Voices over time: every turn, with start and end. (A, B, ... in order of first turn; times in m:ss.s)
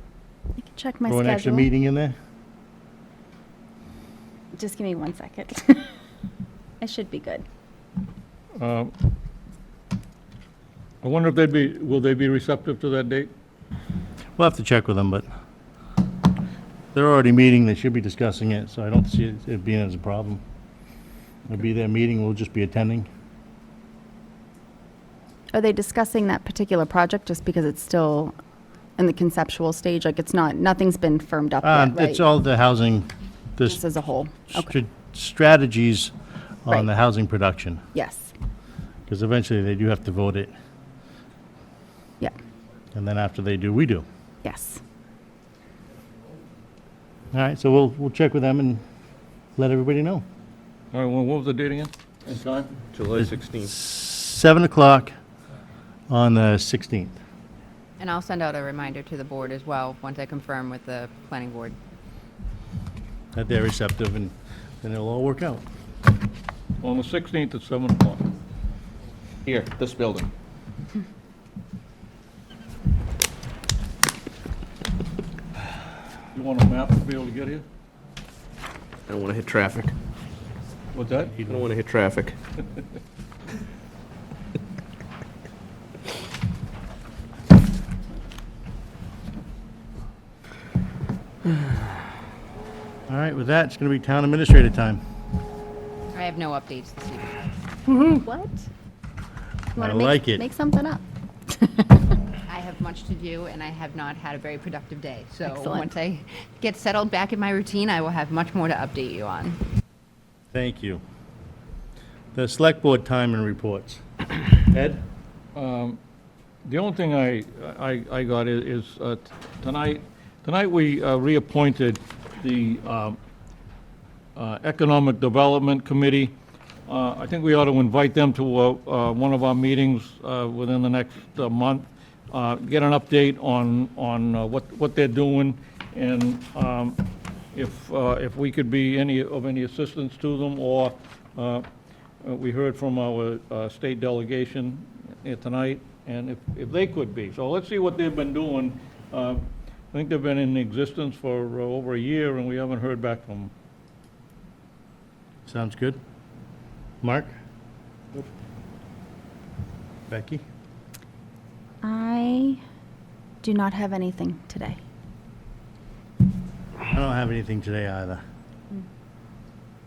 0:00.6-0:01.7 A
0:01.1-0:02.2 B
0:04.6-0:06.0 A
0:06.8-0:07.5 A
0:08.6-0:08.9 C
0:11.0-0:13.3 C
0:14.4-0:15.3 B
0:16.9-0:20.4 B
0:21.5-0:23.1 B
0:25.5-0:28.3 A
0:29.0-0:32.2 A
0:31.6-0:33.8 B
0:33.6-0:34.7 A
0:34.5-0:36.1 B
0:36.6-0:37.8 B
0:38.0-0:38.3 A
0:39.1-0:40.5 B
0:42.9-0:44.0 B
0:44.4-0:44.8 A
0:47.3-0:48.8 B
0:49.6-0:50.2 B
0:50.9-0:52.8 C
0:52.9-0:53.7 D
0:53.7-0:55.1 B
0:56.1-0:57.2 B
0:58.0-1:01.8 E
1:03.4-1:05.6 B
1:06.8-1:08.3 C
1:09.5-1:10.3 D
1:16.3-1:17.6 C
1:19.1-1:20.0 D
1:20.9-1:21.4 C
1:21.5-1:22.4 D
1:33.1-1:35.0 B
1:36.1-1:37.5 E
1:37.9-1:38.2 B
1:38.2-1:38.7 A
1:39.8-1:42.1 A
1:39.8-1:40.4 B
1:42.5-1:49.6 E
1:45.4-1:45.9 A
1:50.5-1:51.0 B
1:52.4-1:55.0 B
1:55.6-1:56.0 C
1:56.6-2:03.2 C
2:04.4-2:06.4 C
2:06.9-2:17.0 C
2:17.5-2:21.6 C
2:22.2-2:33.5 C
2:35.5-2:36.0 B
2:37.0-2:37.3 B
2:40.1-2:40.4 B
2:41.8-2:42.6 A
2:43.4-2:44.8 A
2:46.9-2:48.2 B